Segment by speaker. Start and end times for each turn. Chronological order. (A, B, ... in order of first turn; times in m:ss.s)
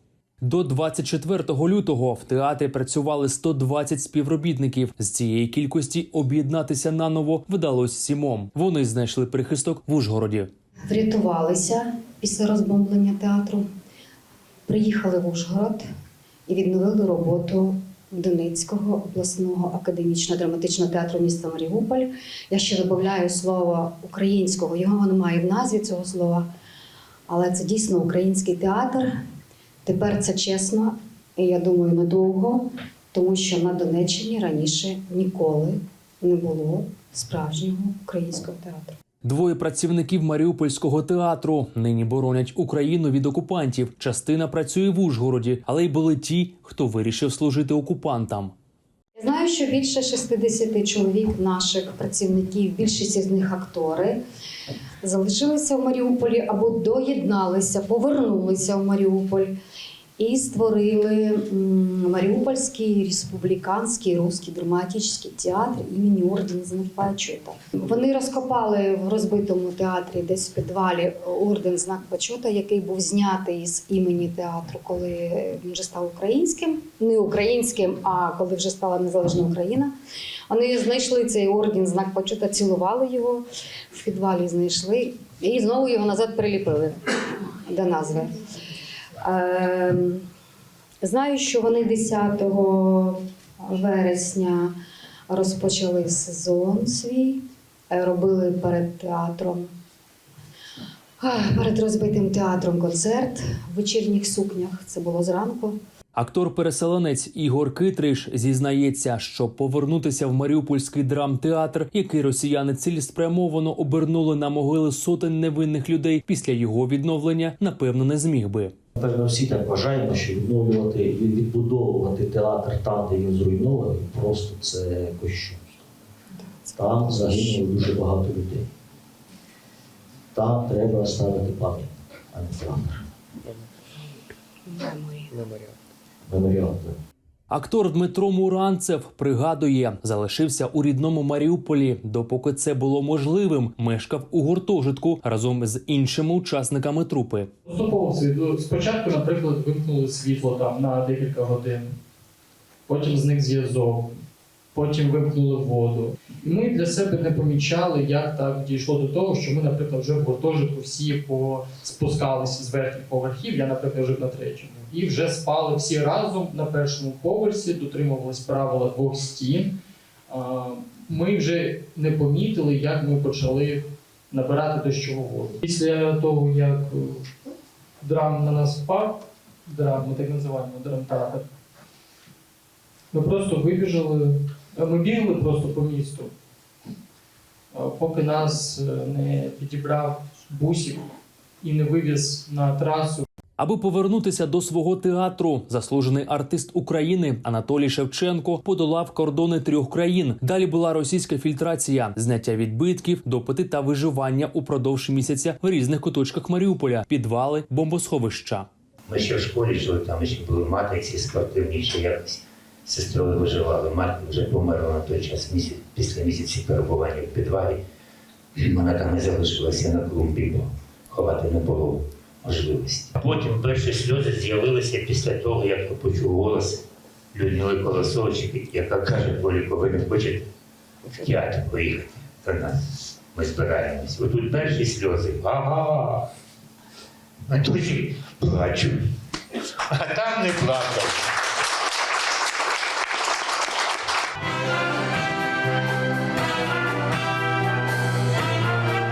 0:00.4-0:10.5 A
0:10.9-0:13.7 B
0:14.7-0:15.9 B
0:16.5-0:26.5 B
0:27.3-0:29.1 B
0:29.8-0:39.0 B
0:39.2-0:48.5 A
0:49.2-0:54.2 B
0:55.0-0:59.5 B
1:00.2-1:19.9 B
1:20.5-1:28.4 B
1:29.2-1:30.2 B
1:31.0-1:34.7 B
1:35.3-1:39.7 B
1:41.2-1:45.8 B
1:46.2-1:58.7 A
1:59.0-2:05.9 C
2:06.3-2:07.6 B
2:06.8-2:08.7 C
2:10.3-2:13.1 C
2:14.6-2:15.5 B
2:16.3-2:17.0 C
2:17.5-2:27.5 A
2:27.7-2:32.0 D
2:32.9-2:34.2 D
2:34.7-2:49.7 D
2:50.3-2:57.3 D
2:58.0-3:01.4 D
3:03.1-3:06.3 D
3:07.7-3:11.1 D
3:11.6-3:13.3 D
3:13.6-3:28.7 A
3:29.1-3:37.8 E
3:38.6-3:50.5 E
3:51.2-3:52.8 E
3:53.3-3:56.3 E
3:57.5-3:59.0 E
3:59.9-4:01.2 E